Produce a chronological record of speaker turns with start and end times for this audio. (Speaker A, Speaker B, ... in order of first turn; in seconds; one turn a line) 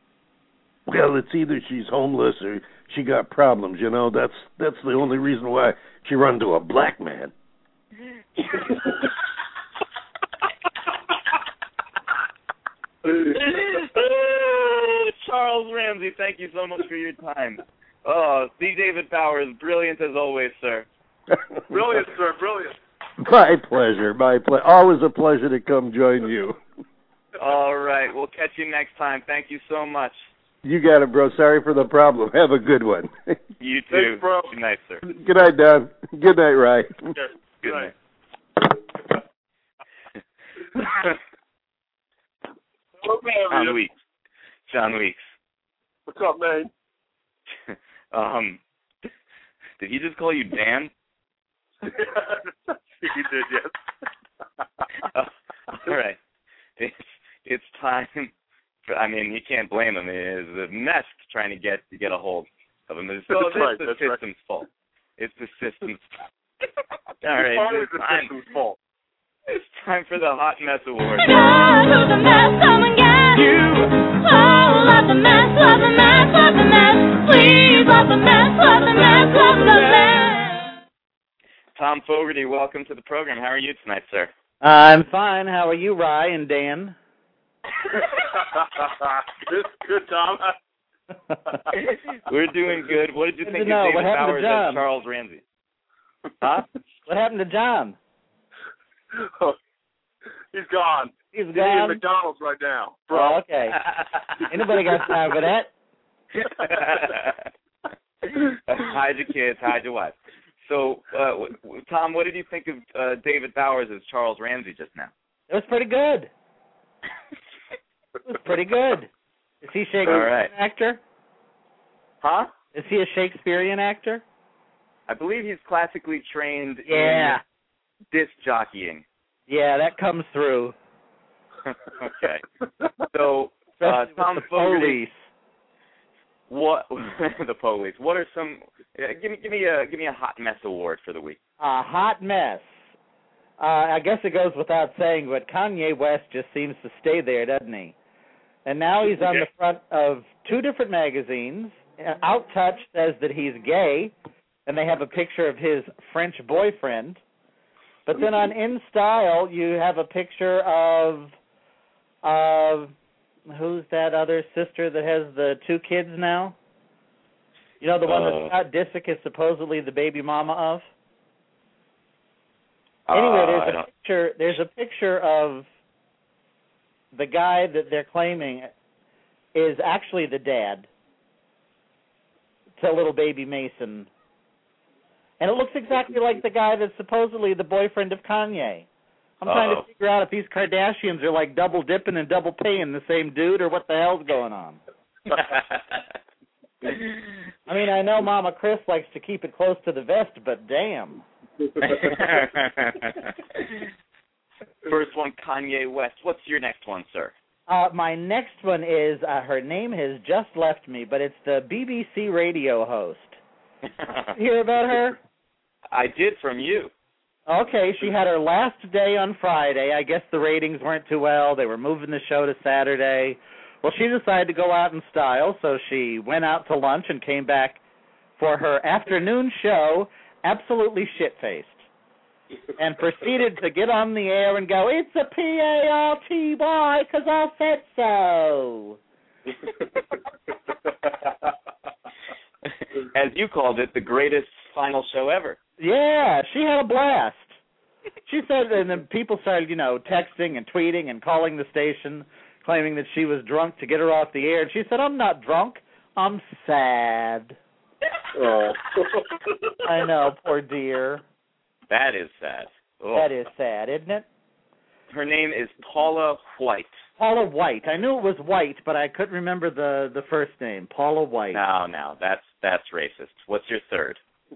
Speaker A: 0.9-7.3
Speaker B: 13.1-20.9
Speaker C: 21.7-22.8
Speaker A: 23.2-26.6
Speaker B: 27.4-30.2
Speaker A: 30.6-33.4
Speaker B: 33.6-35.0
Speaker C: 33.9-34.5
Speaker A: 35.0-37.1
Speaker C: 37.1-37.9
Speaker B: 37.6-37.9
Speaker C: 43.0-43.8
Speaker B: 43.5-43.9
Speaker B: 44.7-45.3
Speaker C: 46.1-46.7
Speaker B: 47.7-48.6
Speaker B: 49.8-50.9
Speaker C: 51.9-53.8
Speaker B: 55.0-56.2
Speaker B: 56.8-58.3
Speaker B: 58.9-66.0
Speaker C: 63.3-64.2
Speaker B: 67.2-68.3
Speaker C: 67.3-68.8
Speaker B: 69.5-71.3
Speaker D: 71.2-80.7
Speaker B: 73.4-73.8
Speaker B: 81.8-84.3
Speaker E: 84.6-87.0
Speaker C: 88.4-90.6
Speaker B: 91.7-95.4
Speaker E: 93.4-94.9
Speaker E: 96.4-98.0
Speaker C: 99.1-99.6
Speaker C: 100.5-103.4
Speaker E: 101.3-102.0
Speaker E: 103.1-103.8
Speaker B: 103.8-104.1
Speaker E: 104.5-105.7
Speaker B: 106.4-107.5
Speaker B: 108.3-115.1
Speaker E: 115.5-116.3
Speaker E: 118.3-119.1
Speaker E: 119.6-121.0
Speaker B: 120.0-120.5
Speaker B: 122.2-122.5
Speaker E: 122.7-124.2
Speaker B: 125.1-127.4
Speaker E: 126.9-127.4
Speaker B: 128.1-129.1
Speaker E: 129.5-130.8
Speaker B: 131.7-132.4
Speaker B: 133.1-135.0
Speaker E: 133.8-135.2
Speaker B: 136.5-141.4
Speaker E: 141.6-142.7
Speaker E: 143.6-147.9
Speaker E: 148.7-154.2
Speaker E: 154.7-157.2
Speaker E: 158.1-161.3
Speaker E: 162.2-162.9
Speaker E: 163.5-166.6
Speaker E: 167.8-170.9
Speaker B: 168.1-168.5
Speaker B: 173.1-173.9
Speaker E: 173.1-175.7
Speaker E: 177.1-178.7
Speaker E: 179.5-180.9
Speaker E: 182.8-184.1
Speaker E: 185.4-188.9
Speaker E: 189.4-194.8
Speaker B: 189.4-189.8
Speaker E: 197.7-201.2
Speaker B: 201.8-203.8
Speaker B: 204.8-207.3
Speaker E: 207.7-213.4
Speaker E: 214.3-215.2
Speaker B: 215.9-216.9
Speaker E: 217.5-227.8
Speaker E: 228.4-231.8
Speaker E: 232.8-239.0
Speaker B: 243.0-245.6
Speaker E: 245.8-247.5
Speaker E: 248.2-257.6
Speaker C: 258.4-259.4
Speaker E: 259.8-261.2
Speaker B: 261.9-263.3
Speaker E: 263.1-264.2
Speaker B: 265.1-266.9
Speaker E: 267.2-271.6
Speaker B: 271.5-274.2